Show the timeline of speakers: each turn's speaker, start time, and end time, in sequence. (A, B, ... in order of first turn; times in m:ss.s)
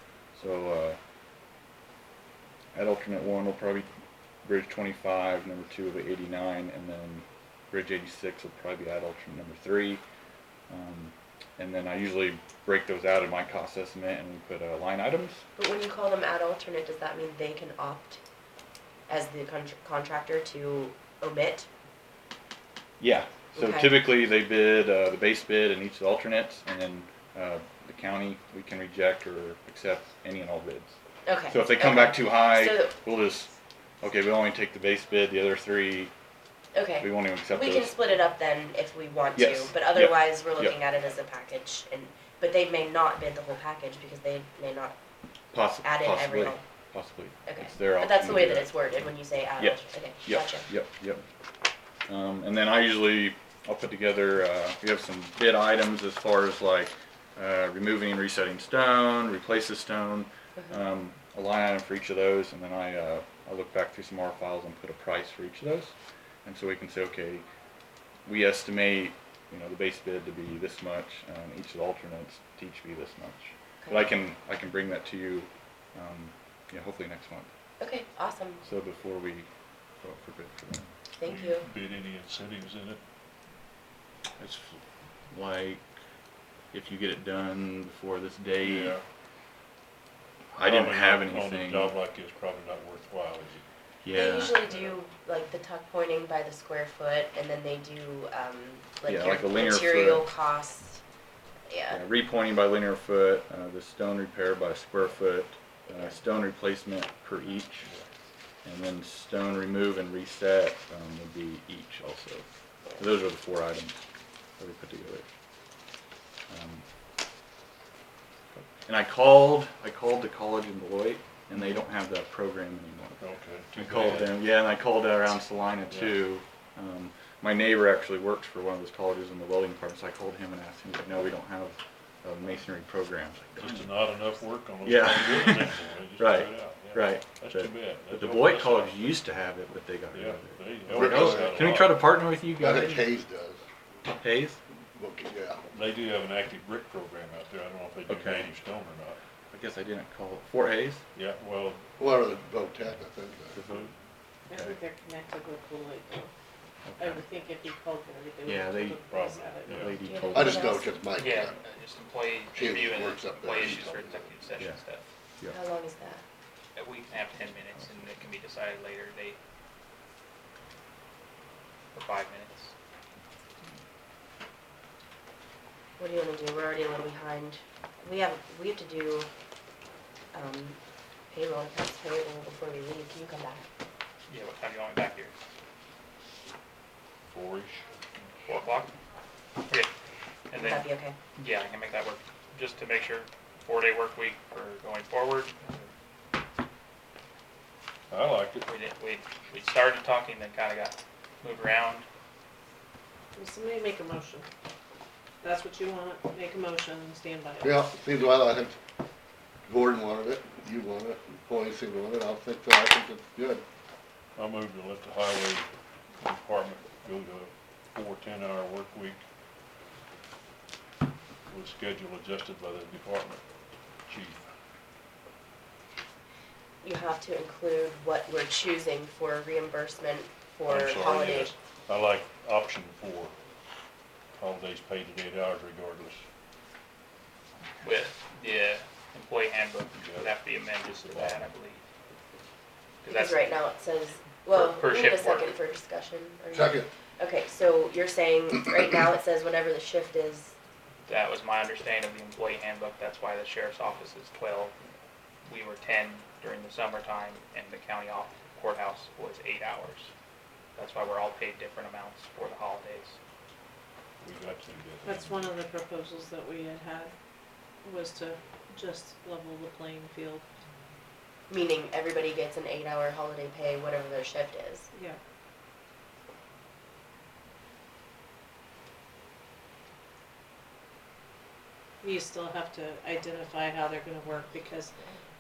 0:00.4-0:01.0 A
0:02.8-0:03.9 A
0:04.4-0:10.0 A
0:10.7-0:15.4 A
0:15.6-0:18.2 B
0:19.1-0:21.7 B
0:23.0-0:31.0 A
0:23.6-0:24.0 B
0:31.2-0:32.9 B
0:31.5-0:33.5 A
0:34.0-0:36.1 A
0:36.7-0:45.0 B
0:37.0-0:38.0 A
0:39.4-0:40.8 A
0:45.5-0:48.8 A
0:45.8-0:46.6 B
0:47.4-0:50.7 B
0:49.6-0:51.2 A
0:52.1-1:05.9 A
1:06.4-1:07.4 A
1:08.3-1:17.5 A
1:13.8-1:14.1 B
1:17.8-1:18.6 B
1:18.6-1:19.5 A
1:20.0-1:20.9 A
1:21.2-1:21.7 B
1:21.2-1:23.0 C
1:24.4-1:24.8 A
1:25.3-1:25.8 A
1:26.7-1:29.0 A
1:28.6-1:29.0 C
1:30.5-1:31.9 A
1:30.6-1:33.6 C
1:34.0-1:34.8 A
1:34.1-1:41.0 B
1:39.0-1:40.3 A
1:41.7-1:42.0 B
1:41.9-1:47.9 A
1:48.6-1:52.5 A
1:53.0-1:54.0 A
1:54.6-1:55.3 A
1:56.5-1:56.8 A
1:58.8-2:03.2 A
2:03.2-2:04.4 C
2:03.8-2:13.9 A
2:05.9-2:06.2 C
2:13.6-2:19.2 C
2:14.8-2:23.1 A
2:20.1-2:22.1 C
2:21.0-2:21.5 D
2:22.6-2:23.6 D
2:24.2-2:24.6 A
2:25.0-2:25.6 D
2:25.7-2:29.2 C
2:28.1-2:28.5 A
2:29.5-2:31.0 A
2:31.2-2:32.0 C
2:32.0-2:33.6 D
2:33.5-2:33.9 A
2:34.5-2:36.3 E
2:34.5-2:34.8 A
2:36.9-2:37.2 A
2:37.0-2:40.5 E
2:38.5-2:39.0 A
2:39.0-2:40.0 C
2:39.6-2:40.9 A
2:40.0-2:40.8 B
2:40.4-2:41.6 D
2:41.2-2:45.0 F
2:42.5-2:44.3 D
2:45.5-2:46.2 B
2:46.8-2:49.4 F
2:47.8-2:48.1 A
2:51.9-2:52.7 F
2:56.0-2:59.3 B
3:00.3-3:00.8 B
3:01.3-3:03.7 B
3:04.3-3:05.3 F
3:07.3-3:07.9 C
3:08.4-3:08.9 F
3:10.5-3:15.9 F
3:10.5-3:11.2 B
3:18.1-3:18.7 C
3:18.7-3:22.1 F
3:23.4-3:24.5 E
3:25.4-3:27.8 E
3:27.6-3:28.8 D
3:29.7-3:33.6 D
3:34.4-3:39.2 C
3:41.5-3:43.4 C
3:44.1-3:44.5 C
3:46.8-3:51.5 B
3:50.7-3:53.4 C
3:54.4-3:56.2 C
3:57.8-4:01.9 F
3:59.9-4:00.3 C
4:01.0-4:01.5 C
4:03.0-4:03.5 F
4:03.1-4:10.5 B
4:04.5-4:05.5 F
4:06.5-4:06.9 D
4:11.1-4:14.8 F
4:15.4-4:20.1 F
4:20.8-4:23.2 F
4:24.2-4:25.6 C
4:25.0-4:27.1 E
4:27.8-4:30.4 E
4:31.5-4:34.9 B
4:34.9-4:35.2 E
4:42.0-4:45.0 E